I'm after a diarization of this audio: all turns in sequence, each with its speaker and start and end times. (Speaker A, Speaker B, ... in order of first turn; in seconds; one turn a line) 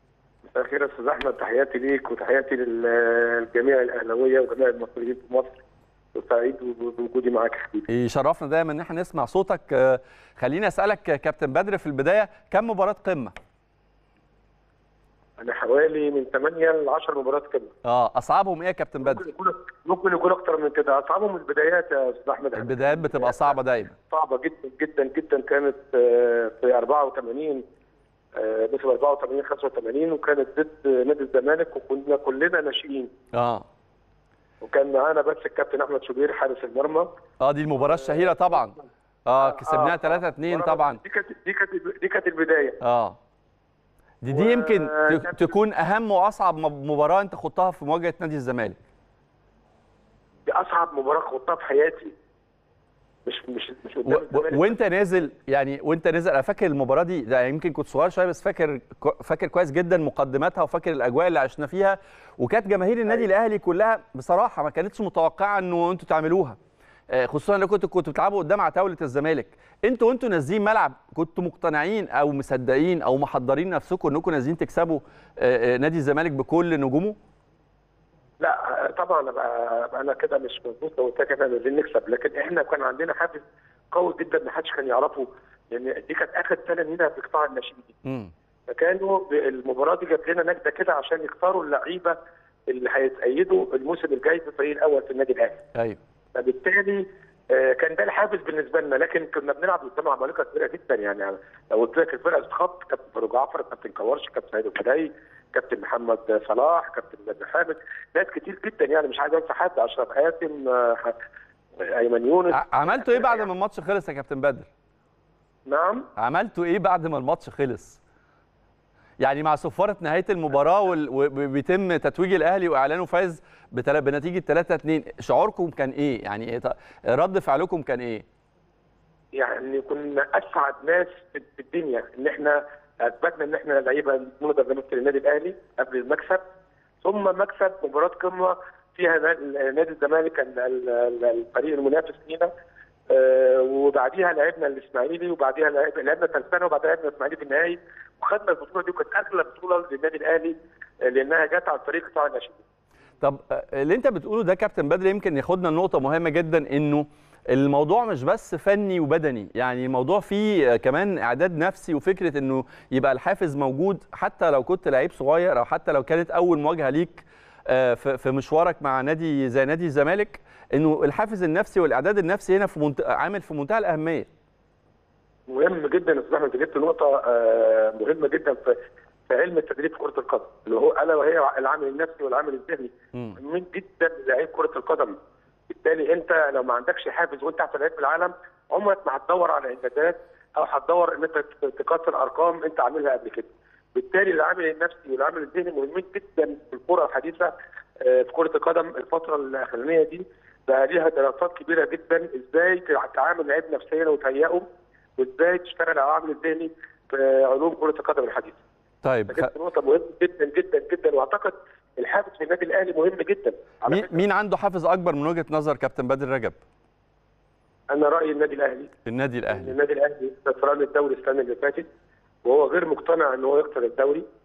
Speaker A: 0.5-5.6
Speaker A: 6.1-7.9
Speaker B: 7.9-13.3
Speaker A: 15.4-17.7
Speaker B: 17.8-19.3
Speaker A: 19.0-23.6
Speaker B: 22.6-23.9
Speaker A: 24.1-27.6
Speaker A: 28.4-33.1
Speaker B: 33.3-33.6
Speaker A: 34.6-37.1
Speaker B: 37.4-38.8
Speaker A: 37.8-42.8
Speaker B: 39.3-41.0
Speaker B: 42.8-43.2
Speaker B: 44.2-48.8
Speaker A: 44.3-45.5
Speaker A: 50.5-52.1
Speaker A: 53.3-54.8
Speaker B: 54.1-66.6
Speaker B: 67.1-77.2
Speaker A: 78.4-87.9
Speaker B: 88.0-88.3
Speaker A: 88.7-92.2
Speaker A: 92.7-95.6
Speaker A: 96.3-111.2
Speaker A: 111.8-113.5
Speaker B: 112.5-114.7
Speaker A: 115.7-116.1
Speaker B: 116.2-118.0
Speaker B: 119.2-128.2
Speaker A: 129.3-136.4
Speaker A: 137.0-142.5
Speaker A: 143.1-152.6
Speaker B: 153.2-174.3
Speaker A: 175.5-178.8
Speaker A: 179.3-185.2
Speaker A: 185.7-204.6
Speaker A: 205.2-208.6
Speaker B: 209.0-209.5
Speaker A: 209.3-214.2
Speaker B: 213.9-216.6
Speaker A: 217.9-218.9
Speaker B: 219.1-219.8
Speaker A: 219.5-221.9
Speaker A: 222.4-224.2